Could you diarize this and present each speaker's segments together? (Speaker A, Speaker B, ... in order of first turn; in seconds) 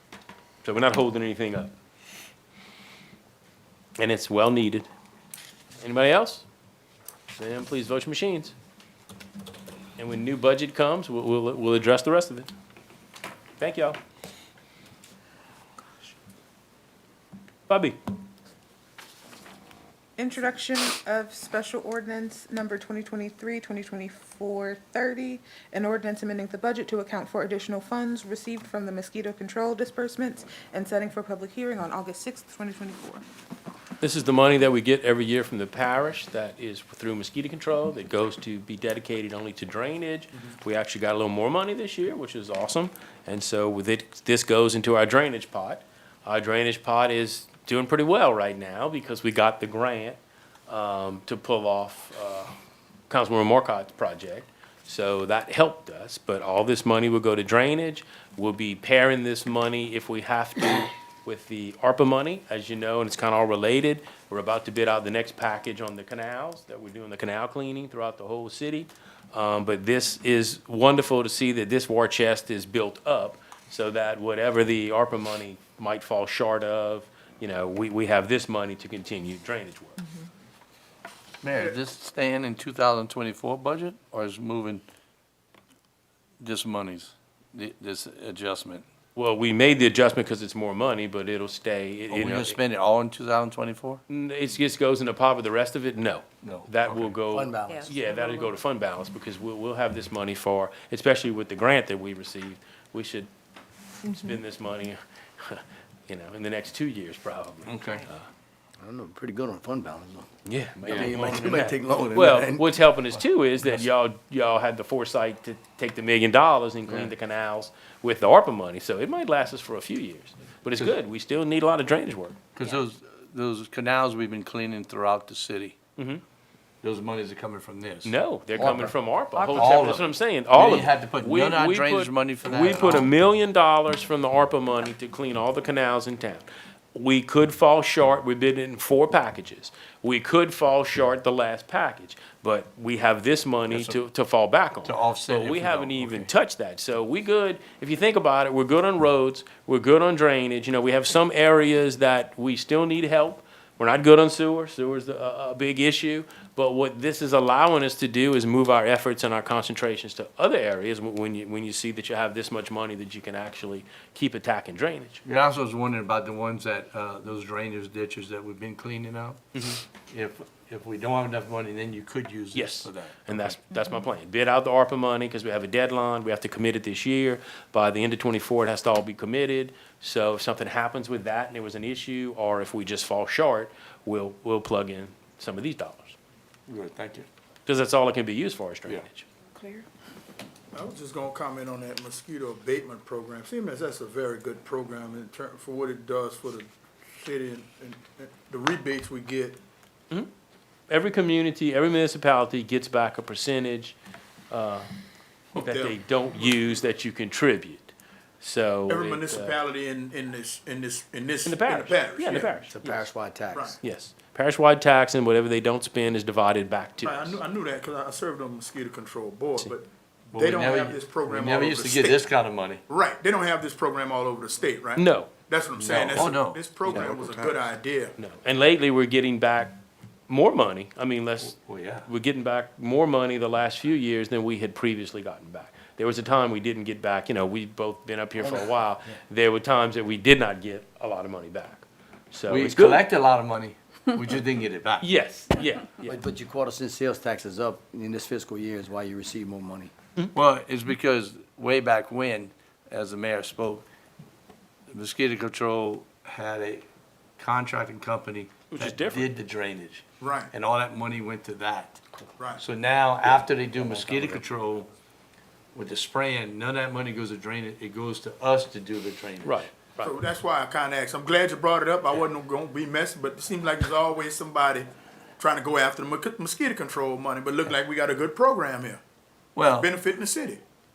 Speaker A: 0.6-1.7, 4.0-4.9, 5.8-6.5, 7.3-8.6, 10.0-12.5, 13.6-14.0, 17.7-18.0, 34.0-52.5, 53.1-80.0, 89.2-92.6, 94.1-103.3, 104.0-108.3, 110.5-122.4, 126.0-126.2, 128.1-165.2, 169.6-169.8, 172.5-186.2, 187.7-189.3, 200.9-204.0, 204.5-204.9, 205.6-209.6, 211.4-213.1, 213.8-217.4, 225.0-225.3, 228.2-229.8, 230.3-243.1, 245.0-246.2, 258.7-259.3, 263.8-264.4, 269.4-270.1
Speaker B: 20.2-33.2
Speaker C: 81.4-84.8, 86.4-88.8, 92.1-94.0, 96.4-97.2, 107.7-108.0, 110.8-111.6, 122.5-125.8, 126.8-128.2, 129.4-133.1, 143.7-144.1, 144.8-146.3, 165.2-173.6, 186.7-187.3, 220.3-222.8, 225.8-227.6, 231.5-232.1, 242.5-245.1, 250.3-253.8, 254.9-256.9, 257.4-262.0, 262.6-264.9, 265.7-269.6, 279.6-279.9
Speaker D: 97.3-97.9, 108.8-110.3, 110.8-112.8, 128.6-128.9, 212.7-213.8, 238.4-238.7, 246.0-249.9
Speaker E: 190.7-199.6, 205.6-206.7, 208.9-212.6, 217.0-222.3, 222.9-228.2, 260.2-260.5, 262.4-262.6, 270.0-279.0, 279.7-280.6